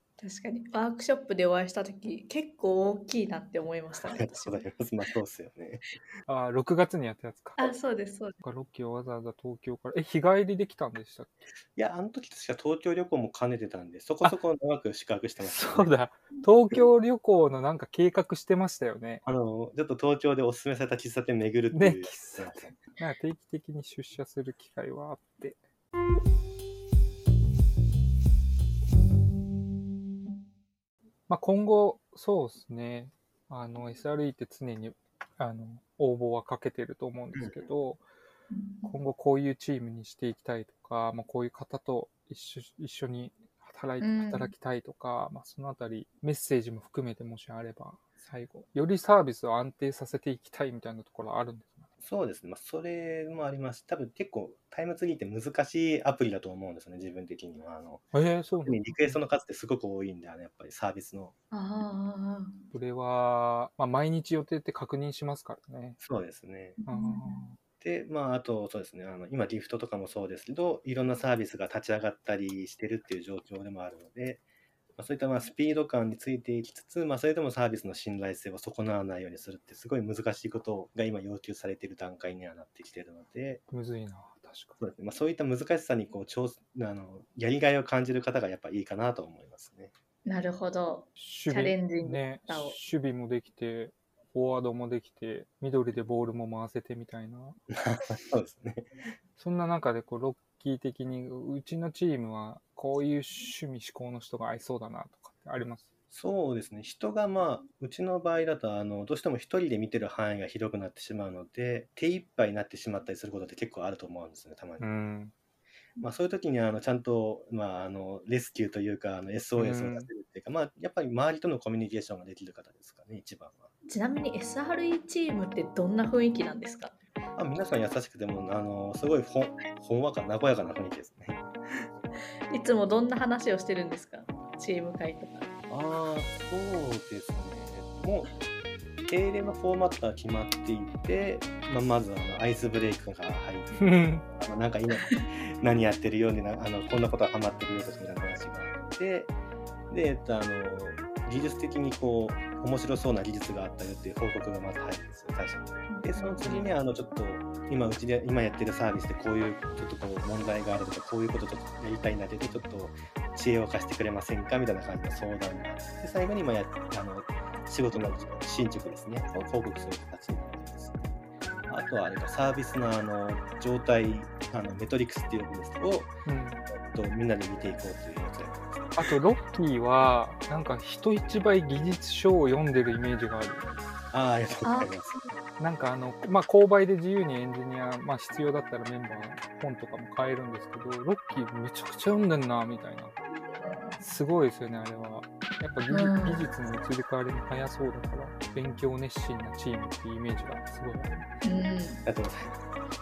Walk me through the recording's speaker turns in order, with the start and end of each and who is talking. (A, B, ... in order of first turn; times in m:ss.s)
0:00.2-0:04.6 A
0:04.0-0:05.8 B
0:06.2-0:07.8 C
0:07.6-0:08.4 A
0:08.4-0:11.5 C
0:11.8-0:15.9 B
0:15.4-0:19.2 C
0:19.2-0:22.8 B
0:21.7-0:25.6 C
0:31.3-0:38.0 C
0:37.4-0:37.6 B
0:38.5-0:38.9 A
0:38.9-0:51.9 C
0:44.0-0:44.5 A
0:52.0-1:01.3 B
0:58.1-0:58.9 C
1:01.5-1:02.6 A
1:02.7-1:06.0 C
1:06.0-1:06.8 B
1:06.8-1:07.4 A
1:06.9-1:07.6 C
1:07.8-1:14.4 B
1:15.0-1:23.6 B
1:23.7-1:24.8 C
1:24.8-1:29.9 B
1:30.2-1:32.8 A
1:31.2-1:37.6 C
1:37.9-1:38.9 B
1:39.4-1:45.9 C
1:46.1-1:54.9 B
1:54.8-1:55.3 C
1:56.0-2:03.7 B
1:59.6-2:00.1 C
2:03.9-2:07.0 A
2:07.4-2:11.4 B
2:12.5-2:15.5 A
2:15.7-2:18.3 B
2:19.1-2:29.3 B
2:23.8-2:24.2 C
2:29.9-2:51.2 B
2:35.9-2:36.5 A
2:36.4-2:36.7 C
2:51.7-2:56.1 B
2:56.2-2:56.6 C
2:56.7-2:59.0 B
2:59.0-3:03.7 C
3:04.1-3:05.1 B
3:04.6-3:05.3 A
3:05.6-3:13.1 C
3:14.0-3:21.3 C
3:15.9-3:16.5 A
3:21.4-3:22.0 A
3:22.1-3:22.6 B